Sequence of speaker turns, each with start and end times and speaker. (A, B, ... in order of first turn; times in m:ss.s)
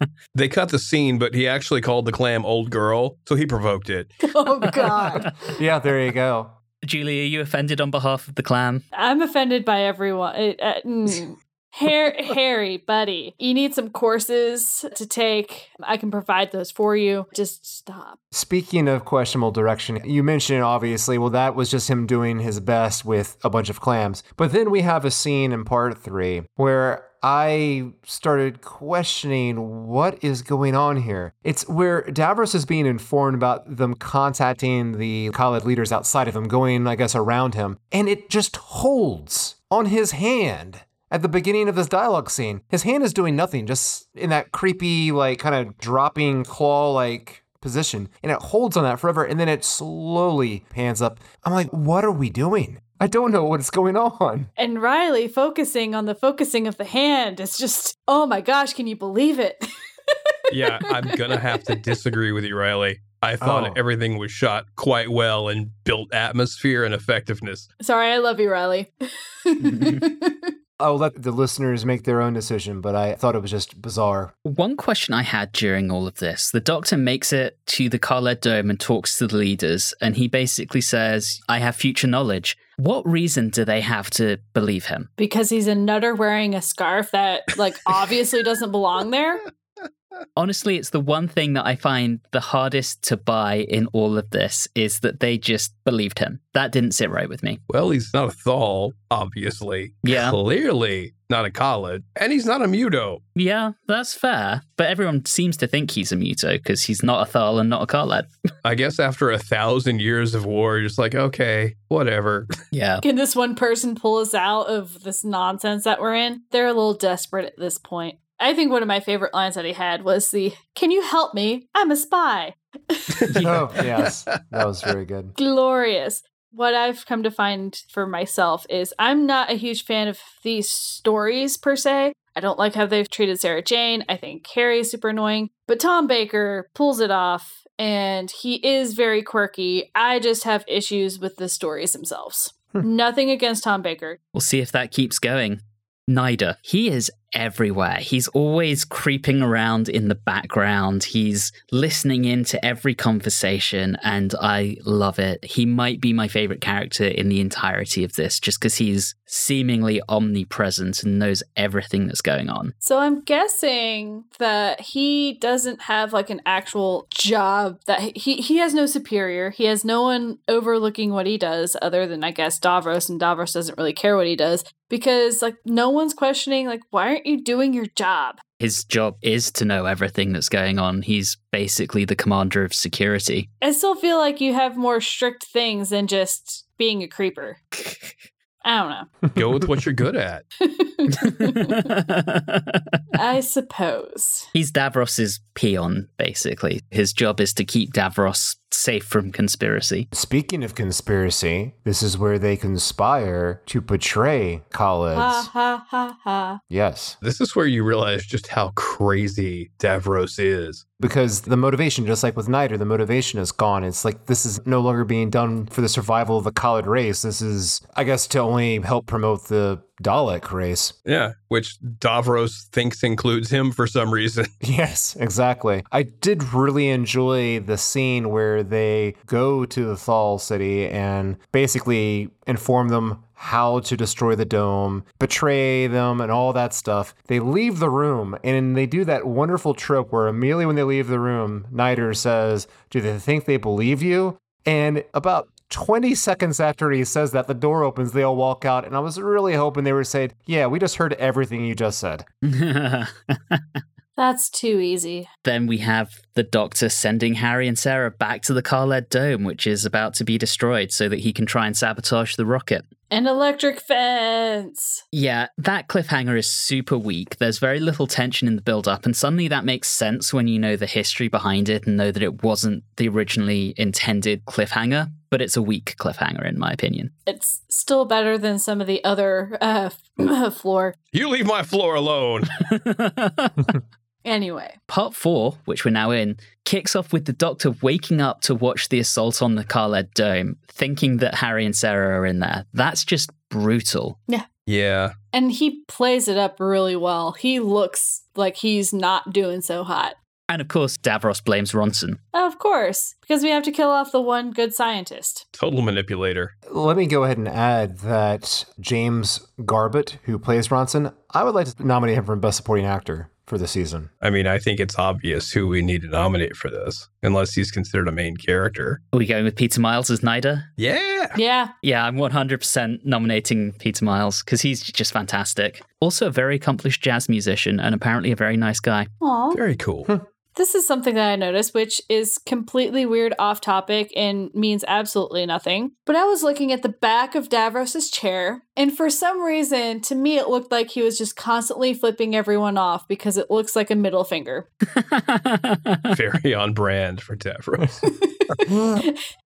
0:00.3-0:04.2 A
0:04.2-0:05.6 B
0:04.4-0:06.5 C
0:06.8-0:08.8 D
0:08.9-0:18.2 B
0:18.3-0:54.5 C
0:54.6-1:01.8 B
1:00.5-1:07.7 A
1:03.4-1:03.8 C
1:07.8-1:08.9 B
1:09.4-1:10.5 B
1:09.6-1:10.0 D
1:10.8-1:14.3 C
1:14.4-1:25.1 D
1:25.2-1:29.4 B
1:30.4-1:37.6 D
1:37.7-1:43.2 A
1:40.0-1:40.4 D
1:43.3-1:48.3 D
1:48.6-1:52.5 A
1:52.7-1:53.0 D
1:53.0-2:03.3 B
2:03.3-2:03.8 D
2:03.4-2:05.3 C
2:05.4-2:24.2 B
2:24.3-2:42.7 D
2:42.8-2:58.4 B
2:58.6-3:03.5 D
3:03.6-3:07.6 B
3:08.6-3:09.1 B
3:09.3-3:10.4 A
3:10.6-3:11.9 B
3:11.2-3:13.0 D
3:13.1-3:14.5 B
3:14.5-3:20.1 D
3:20.1-3:25.5 C
3:25.1-3:26.6 B
3:26.7-3:27.2 C
3:27.2-3:30.8 A
3:31.0-3:40.9 C
3:41.0-3:44.5 A
3:44.6-4:12.2 C
4:12.4-4:13.8 D
4:14.2-4:15.3 B
4:15.4-4:22.9 D
4:23.1-4:25.0 B
4:25.1-4:37.1 D
4:37.2-4:40.9 B
4:41.1-4:42.6 A
4:42.7-4:43.7 D
4:44.2-4:44.8 B
4:44.9-4:54.2 D
4:54.7-4:55.1 A
4:55.3-5:00.2 B
5:00.5-5:02.2 D
5:02.3-5:05.4 B
5:05.5-5:06.5 A
5:06.7-5:14.1 C
5:14.2-5:19.0 A
5:19.1-5:20.7 D
5:20.8-5:21.4 A
5:21.3-5:21.7 B
5:21.8-5:29.1 D
5:29.2-5:29.6 B
5:29.5-5:30.1 A
5:30.5-5:44.7 B
5:44.9-5:46.1 D
5:46.1-5:48.8 A
5:48.1-5:49.2 B